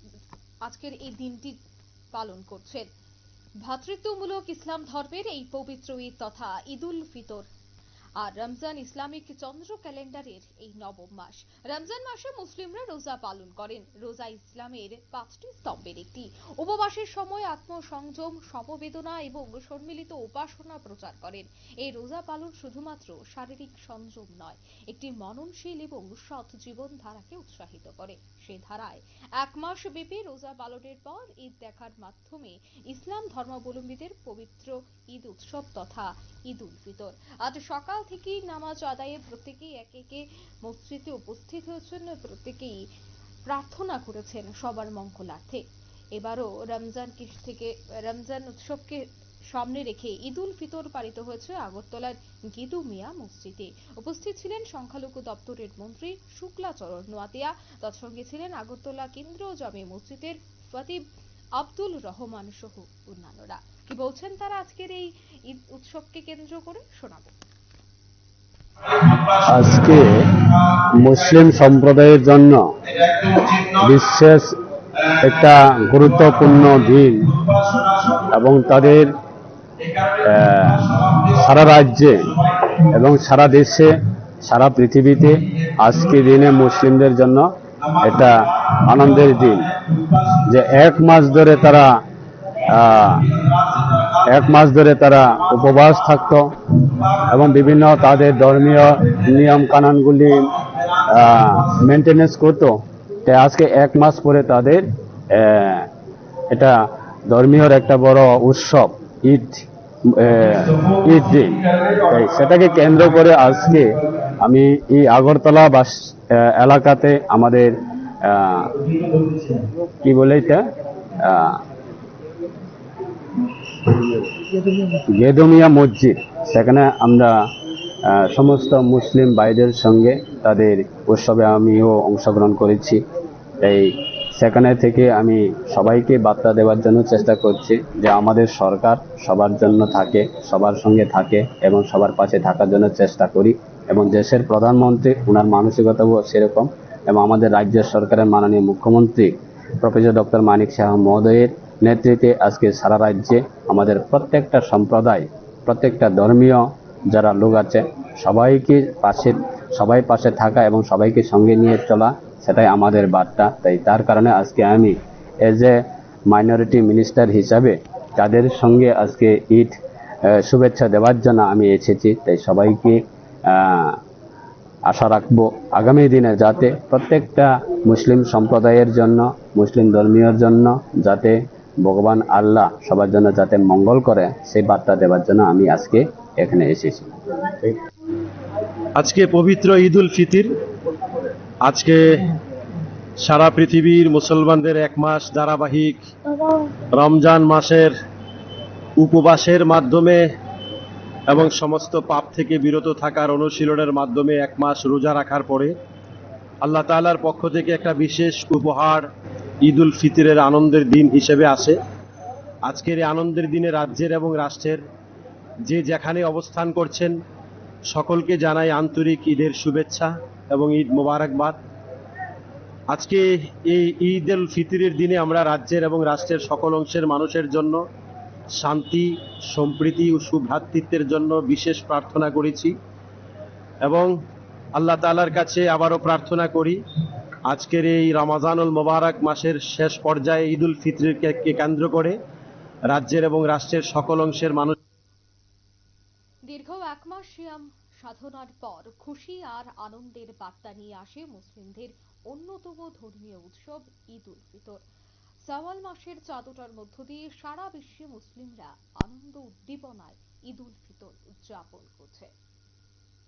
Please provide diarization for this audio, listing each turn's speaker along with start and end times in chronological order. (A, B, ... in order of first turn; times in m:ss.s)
0:00.6-0:01.6 A
0:02.1-0:02.9 A
0:03.6-0:07.5 A
0:08.2-0:42.8 A
0:43.5-1:01.0 A
1:01.6-1:07.4 A
1:09.1-1:09.6 B
1:09.4-1:12.7 C
1:13.1-1:13.8 B
1:13.7-1:14.6 C
1:15.2-1:17.4 C
1:17.4-1:18.3 B
1:18.3-1:19.2 C
1:19.8-1:21.6 B
1:20.2-1:29.8 C
1:27.9-1:30.5 B
1:30.4-1:32.0 C
1:32.7-1:33.4 C
1:33.4-1:34.3 B
1:34.2-1:36.6 C
1:37.0-1:37.4 B
1:37.2-1:45.9 C
1:38.2-1:38.5 B
1:40.8-1:41.1 B
1:46.5-1:58.8 C
2:00.0-2:00.7 C
2:01.2-2:01.6 C
2:05.1-2:07.4 C
2:08.0-2:13.0 C
2:13.6-2:45.8 C
2:46.3-2:49.8 C
2:50.3-2:54.0 C
2:54.9-3:07.8 C
3:09.0-3:10.5 B
3:11.6-3:12.3 B
3:13.2-3:16.1 B
3:16.9-3:18.0 B
3:19.0-3:20.4 B
3:21.3-3:25.8 B
3:26.6-3:29.1 B
3:29.6-3:31.8 B
3:32.6-3:34.8 B
3:35.6-3:37.2 B
3:37.9-3:41.6 B
3:42.9-3:47.8 B
3:48.6-3:52.8 B
3:53.8-3:54.1 B
3:54.8-3:56.8 B
3:57.5-4:02.2 B
4:02.9-4:04.8 B
4:06.5-4:14.8 A
4:15.5-4:22.3 A